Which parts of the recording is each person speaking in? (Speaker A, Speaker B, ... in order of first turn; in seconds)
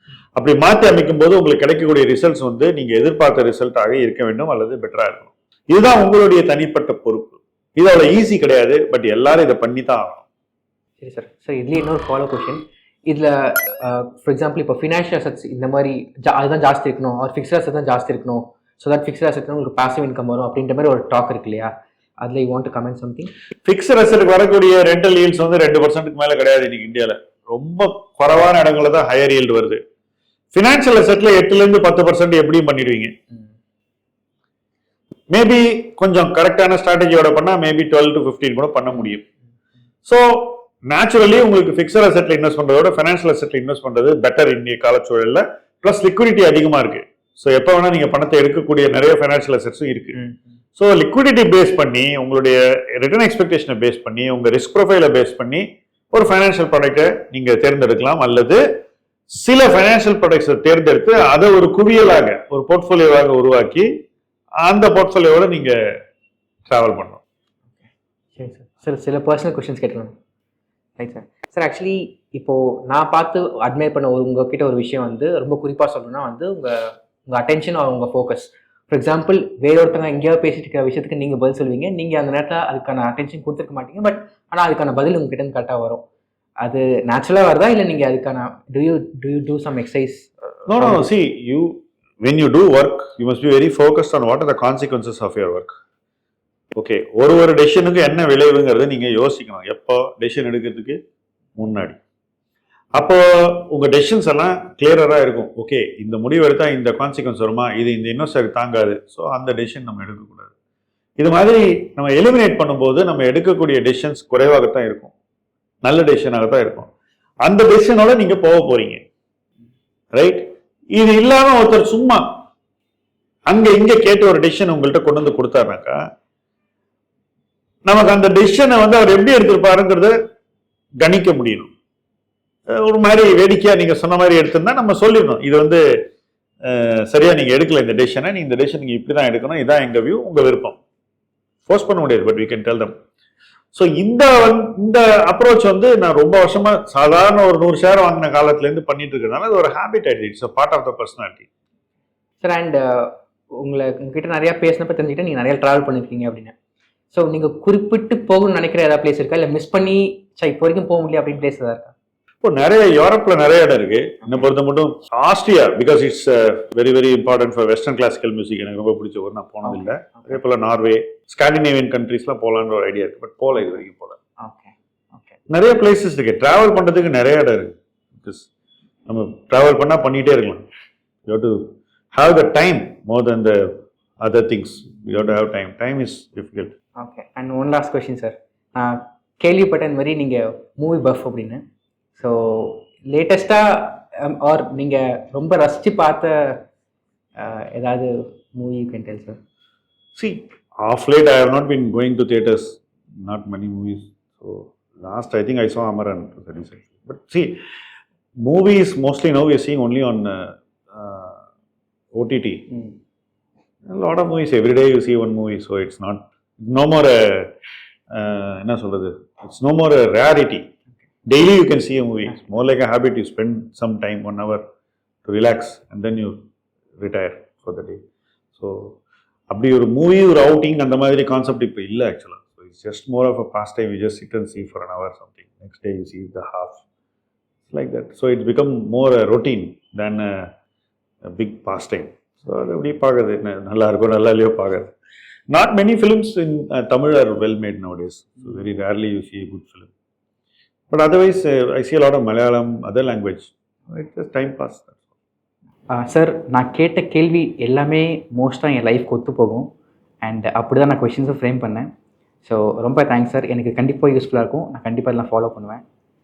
Speaker A: 0.4-10.2, 23.6-29.8, 30.5-33.1, 35.3-39.2, 40.1-50.2, 50.8-58.6, 59.3-63.9, 64.6-65.8, 66.7-67.2, 90.7-95.7, 96.7-101.0, 101.6-102.0, 103.0-110.5, 111.2-115.1, 115.8-116.9, 117.4-119.0, 120.2-122.3, 123.5-126.0, 127.9-130.1, 131.0-131.7, 132.7-135.8, 136.7-140.8, 141.7-142.9, 143.7-151.5, 162.4-174.2, 175.5-178.5, 179.1-180.7, 181.3-186.7, 200.2-207.6, 208.4-211.4, 212.2-212.8, 213.9-217.5, 218.1-220.7, 221.3-224.6, 225.3-226.4, 227.0-228.0, 228.6-229.0, 229.5-236.8, 237.7-240.5, 241.3-244.9, 245.5-249.9, 250.9-255.0
Speaker B: 11.0-23.3, 68.4-70.1, 71.0-86.0, 86.6-91.0, 152.4-156.5, 157.1-161.9, 169.6-170.3, 174.4-175.4, 187.0-191.6, 192.2-196.6, 197.4-199.4, 255.9-259.7, 260.2-261.9, 262.4-265.8